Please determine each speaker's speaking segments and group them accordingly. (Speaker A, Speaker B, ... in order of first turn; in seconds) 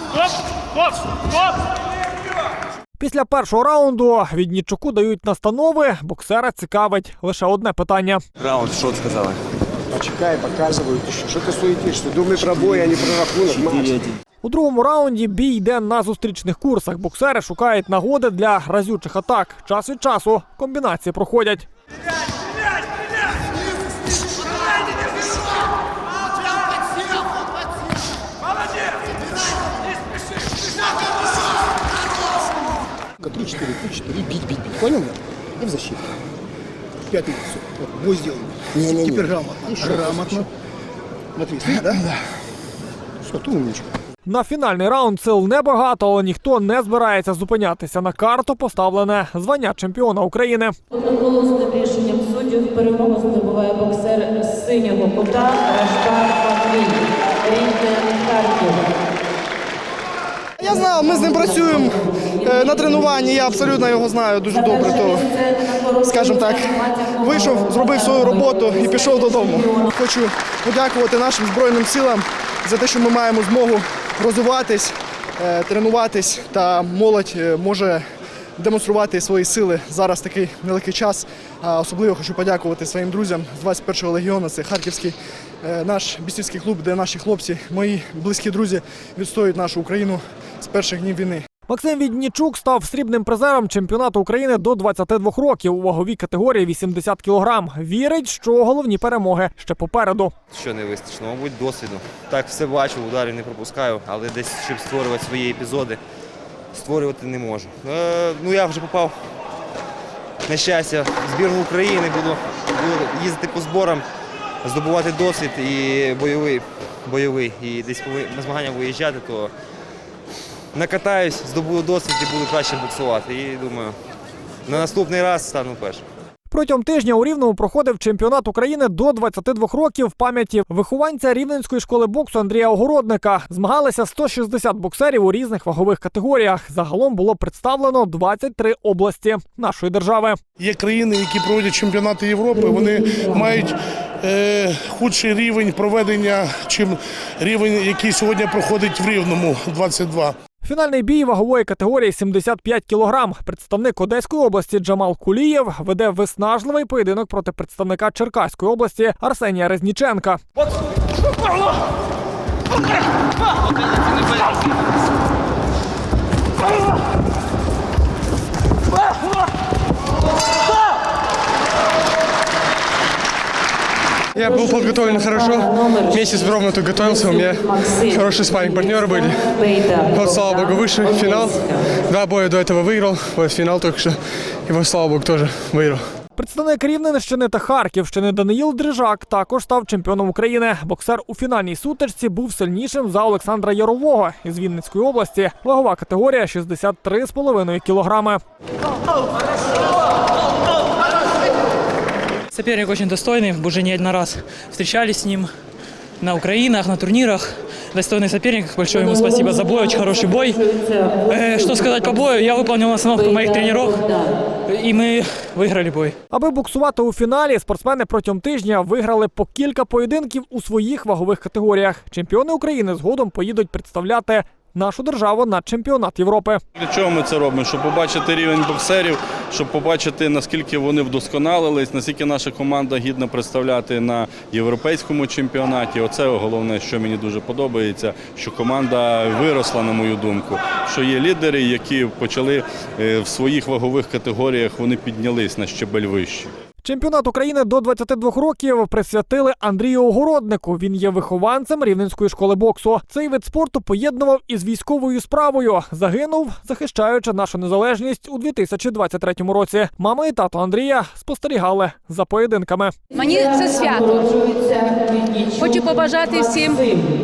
Speaker A: 3.0-8.2, 14.4-21.6, 44.2-50.7, 91.7-100.3, 126.5-140.4, 150.6-160.4, 186.4-198.4, 216.3-226.6, 246.8-262.9
Speaker B: 8.4-9.4, 100.5-106.0, 106.7-109.2, 110.5-114.0, 114.6-119.5, 120.7-124.0, 124.7-126.0
Speaker C: 9.9-14.0, 33.2-36.1, 37.1-40.5, 41.4-42.1, 43.2-43.9
Speaker D: 51.3-57.0, 57.5-58.8
Speaker E: 60.6-65.3, 65.9-78.0, 78.6-91.4
Speaker F: 140.6-150.3
Speaker G: 174.3-186.1
Speaker H: 202.5-205.5, 206.2-216.2
Speaker I: 226.8-246.5
Speaker J: 263.1-267.1